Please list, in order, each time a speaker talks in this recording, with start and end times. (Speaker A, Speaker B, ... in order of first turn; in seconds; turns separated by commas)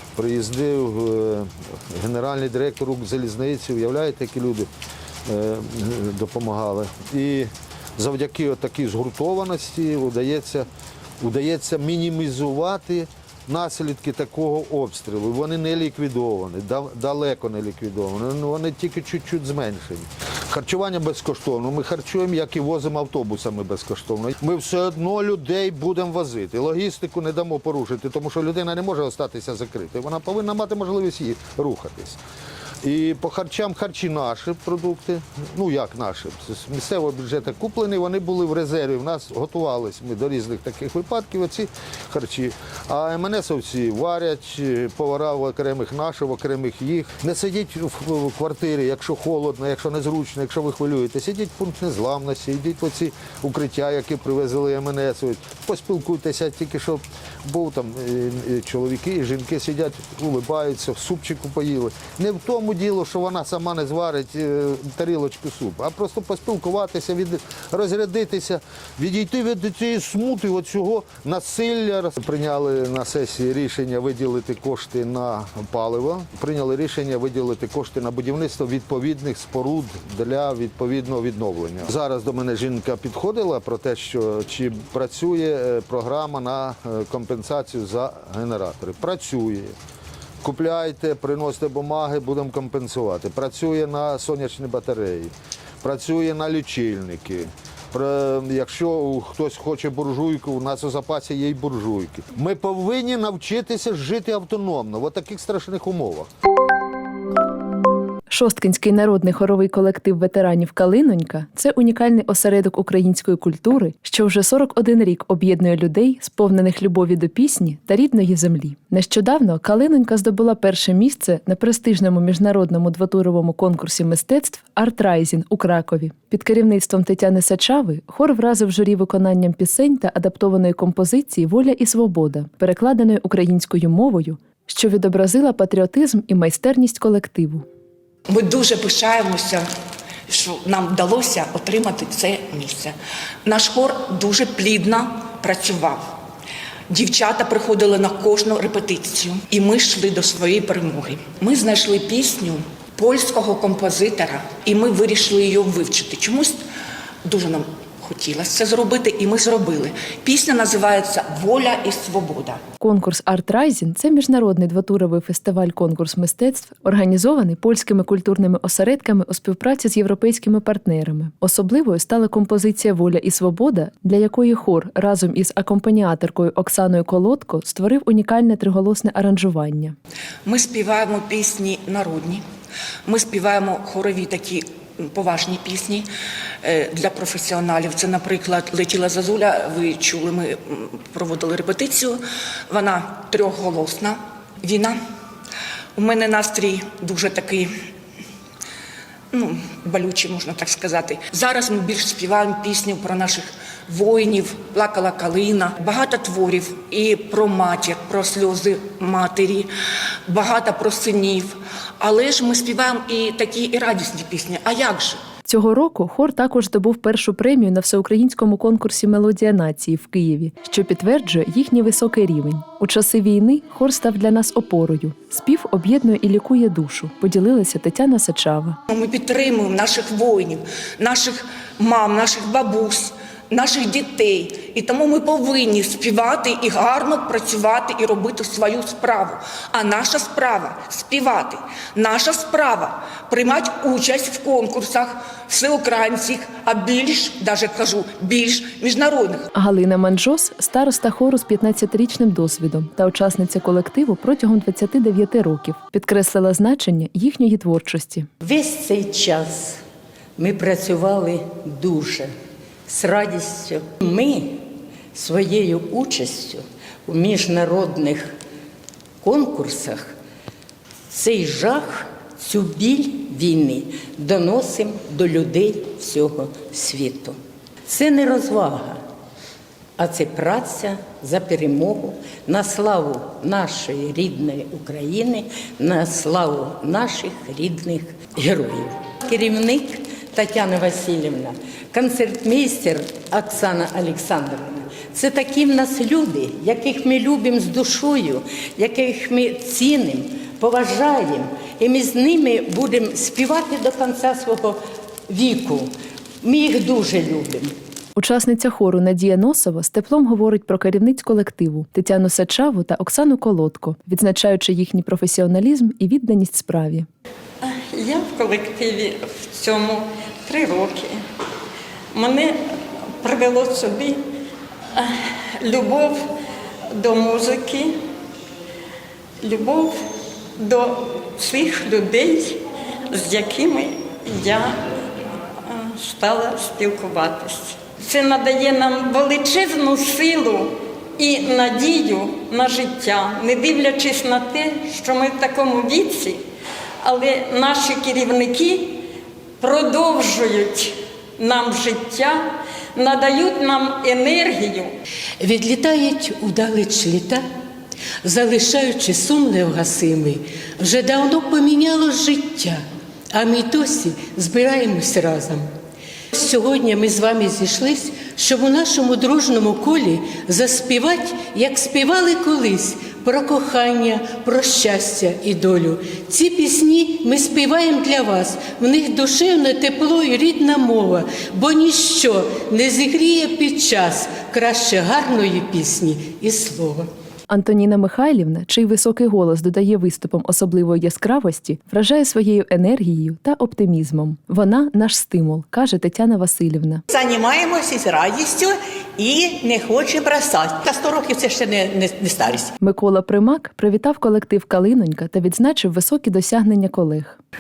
Speaker A: 0.2-4.7, Speaker A: 5.3-10.7, Speaker A: 11.2-32.2, Speaker A: 32.8-89.8, Speaker A: 90.4-106.3, Speaker B: 108.3-137.7, Speaker C: 138.3-139.6, Speaker C: 140.3-142.9, Speaker C: 143.5-146.2, Speaker C: 146.9-156.6, Speaker C: 157.3-162.6, Speaker B: 162.8-179.9, Speaker C: 180.5-182.4, Speaker C: 183.1-186.1, Speaker C: 186.6-195.0, Speaker C: 196.0-197.7, Speaker C: 199.3-209.7, Speaker C: 210.3-215.2, Speaker B: 215.5-228.8, Speaker C: 228.9-249.5, Speaker B: 249.6-258.3, Speaker D: 258.4-259.8, Speaker D: 260.4-262.3, Speaker D: 262.9-268.3, Speaker D: 269.2-270.1, Speaker D: 271.1-279.0, Speaker D: 280.0-305.9, Speaker D: 306.4-307.7, Speaker B: 308.2-317.1, Speaker E: 317.6-321.1, Speaker E: 322.1-322.6, Speaker E: 323.2-324.2, Speaker E: 325.0-326.2, Speaker E: 326.9-328.0, Speaker E: 329.4-330.0, Speaker E: 330.6-332.6, Speaker E: 333.1-334.8, Speaker E: 335.6-346.4, Speaker E: 347.0-349.0, Speaker E: 349.6-354.9, Speaker F: 355.4-357.4, Speaker F: 358.2-362.8, Speaker F: 363.3-365.7, Speaker F: 366.4-387.1, Speaker B: 387.5-397.0, Speaker G: 397.1-402.6, Speaker B: 402.8-407.4